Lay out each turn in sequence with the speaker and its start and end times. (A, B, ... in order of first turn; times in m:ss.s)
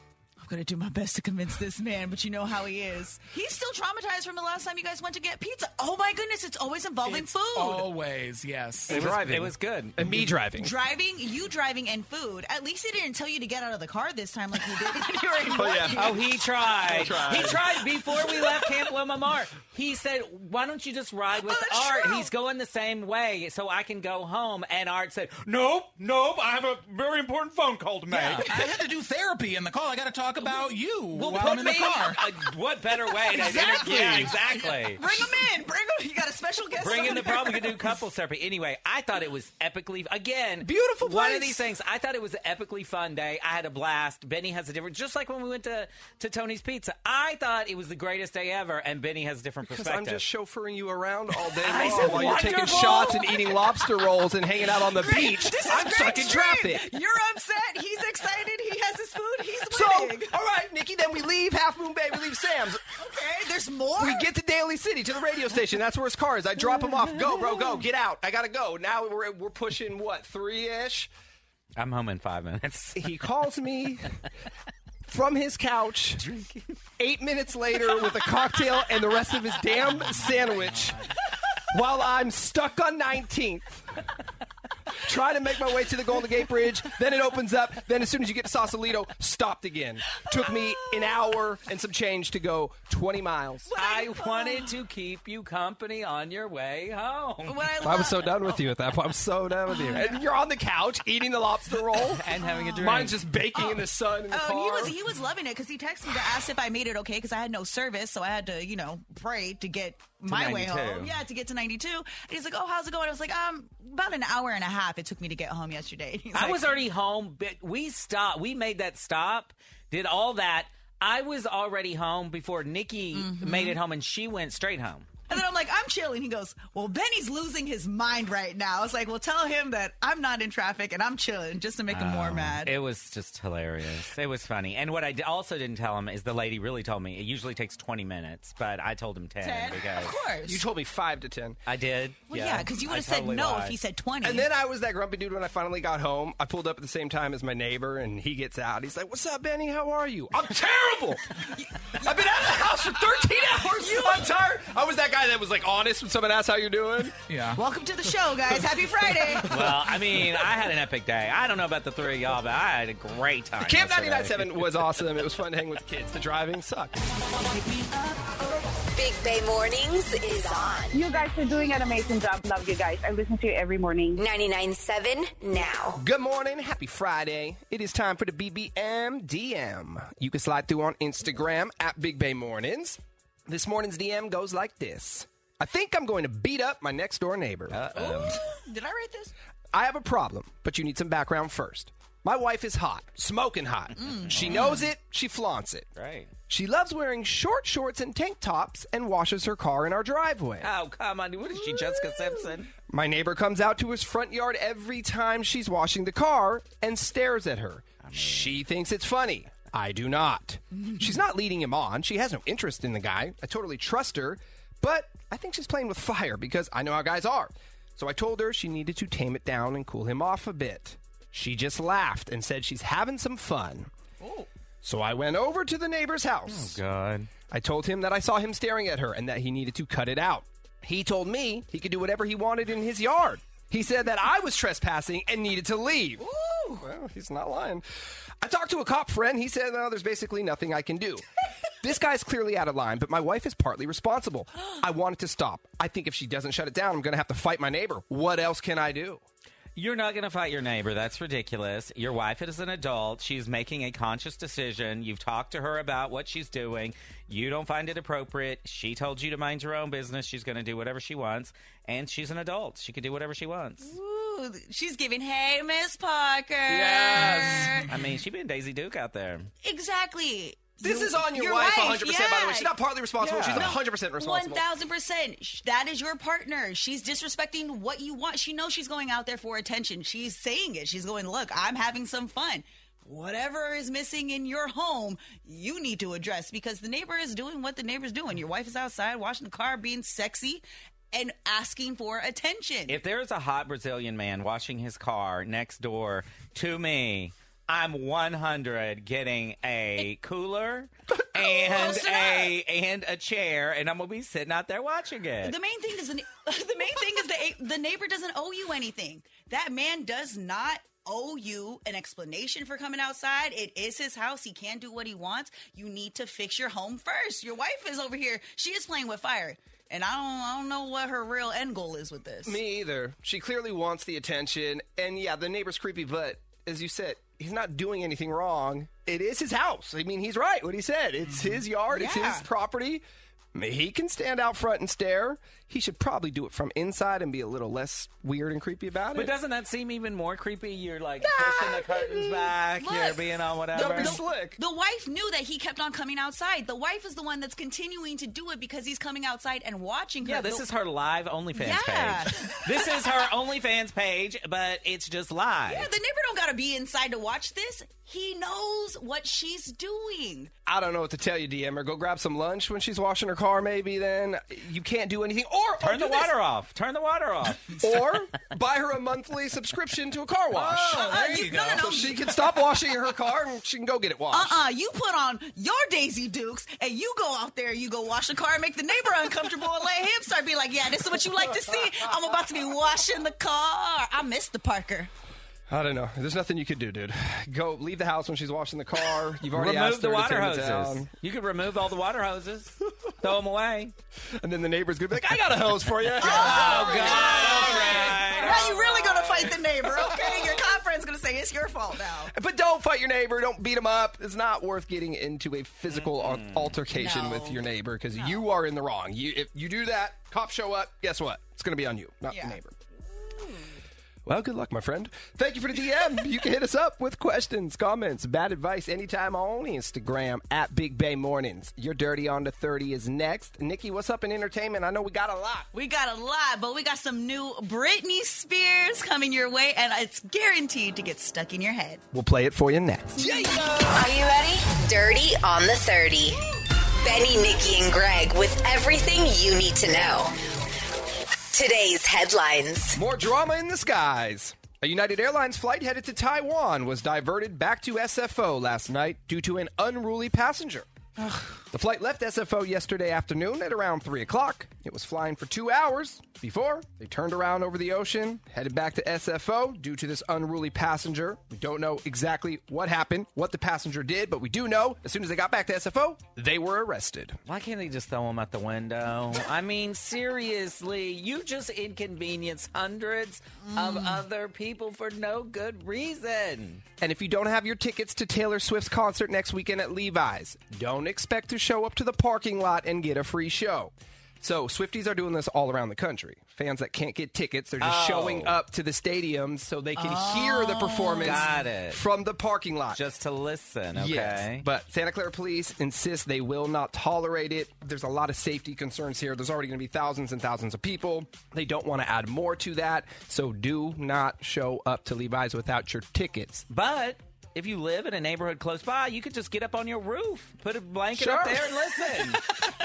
0:00.4-0:07.9 A
0:07.0-0:09.0 B
0:08.9-0:10.7 C
0:08.9-0:10.0 D
0:10.6-0:16.2 A
0:15.5-0:16.2 C
0:15.9-0:28.5 D
0:16.8-0:17.8 C
0:21.5-0:22.3 A
0:28.1-0:32.3 B
0:31.1-0:35.0 D
0:33.4-0:34.4 A
0:33.6-0:34.2 C
0:35.0-0:37.9 A
0:36.8-0:50.2 D
0:40.6-0:41.6 C
0:49.6-0:56.9 C
0:51.6-0:53.5 D
0:55.0-1:00.4 A
0:59.7-1:02.8 C
1:03.0-1:04.3 A
1:04.0-1:11.1 C
1:11.8-1:13.1 D
1:12.9-1:14.1 C
1:15.0-1:16.2 C
1:16.2-1:16.6 D
1:17.0-1:21.1 C
1:21.7-1:23.9 C
1:25.0-1:33.7 C
1:33.7-1:34.7 A
1:33.8-1:37.8 D
1:37.4-1:38.6 A
1:37.8-1:42.2 C
1:39.7-1:40.2 A
1:42.1-1:43.2 D
1:42.4-1:42.9 A
1:42.8-1:44.9 C
1:43.5-1:56.7 A
1:50.3-1:51.1 D
1:56.3-2:05.1 D
2:03.1-2:03.8 A
2:05.3-2:12.7 A
2:11.9-2:20.1 D
2:19.4-2:20.6 A
2:20.4-2:21.6 C
2:21.7-2:23.8 D
2:22.3-2:24.5 A
2:24.2-2:37.2 C
2:31.8-2:32.9 A
2:33.5-2:34.2 A
2:37.3-2:37.6 B
2:37.5-2:39.5 A
2:39.4-2:44.7 D
2:43.6-2:47.0 C
2:47.6-2:48.3 A
2:48.9-2:51.0 E
2:50.9-2:54.2 F
2:54.2-2:56.0 E
2:56.0-3:07.8 C
3:07.7-3:08.4 D
3:07.9-3:09.3 A
3:09.7-3:15.9 C
3:14.0-3:14.8 A
3:14.3-3:14.7 D
3:16.0-3:16.3 D
3:16.5-3:20.7 C
3:20.6-3:22.7 D
3:21.7-3:22.5 A
3:22.9-3:43.9 C
3:28.0-3:28.6 D
3:30.8-3:31.0 A
3:44.8-3:46.8 C
3:46.5-3:47.3 D
3:47.5-3:56.2 C
3:56.2-3:56.8 A
3:56.8-3:57.8 C
3:58.4-4:01.2 C
4:01.8-4:09.2 C
4:09.8-4:23.9 D
4:23.8-4:27.9 A
4:26.7-4:28.0 B
4:27.9-4:29.5 D
4:29.6-4:32.7 A
4:30.8-4:34.6 C
4:33.2-4:33.7 D
4:33.5-4:53.0 A
4:52.9-5:05.5 D
5:01.4-5:02.5 A
5:05.4-5:22.6 A
5:22.4-5:33.0 C
5:31.9-5:32.4 A
5:33.5-5:39.3 C
5:39.1-5:44.2 D
5:41.2-5:42.5 C
5:42.8-5:43.2 A
5:43.7-5:44.6 C
5:43.7-5:50.6 A
5:50.2-5:55.9 D
5:51.5-5:53.1 A
5:55.7-6:00.5 A
6:00.6-6:06.3 C
6:05.8-6:07.8 D
6:07.8-6:11.0 C
6:10.5-6:11.8 B
6:10.6-6:12.3 A
6:11.7-6:14.6 C
6:14.3-6:25.1 A
6:25.7-6:31.1 C
6:29.5-6:33.9 D
6:34.4-6:38.1 C
6:36.2-6:39.6 D
6:36.2-6:42.3 A
6:37.8-6:38.3 B
6:42.3-6:52.8 C
6:45.9-6:46.8 D
6:46.9-6:47.6 A
6:52.3-6:52.6 A
6:53.4-6:53.7 A
6:54.2-7:05.7 C
7:05.7-7:12.0 A
7:12.1-7:13.5 C
7:13.2-7:13.7 A
7:13.8-7:16.4 E
7:17.0-7:20.3 E
7:21.5-7:23.0 E
7:22.9-7:30.9 C
7:31.6-7:47.4 C
7:47.4-7:56.8 D
7:53.7-7:54.2 A
7:57.0-8:13.0 C
8:07.8-8:08.5 D
8:10.0-8:11.5 A
8:11.2-8:12.0 D
8:12.9-8:14.6 D
8:13.9-8:26.7 C
8:26.7-8:32.4 D
8:31.1-8:31.7 C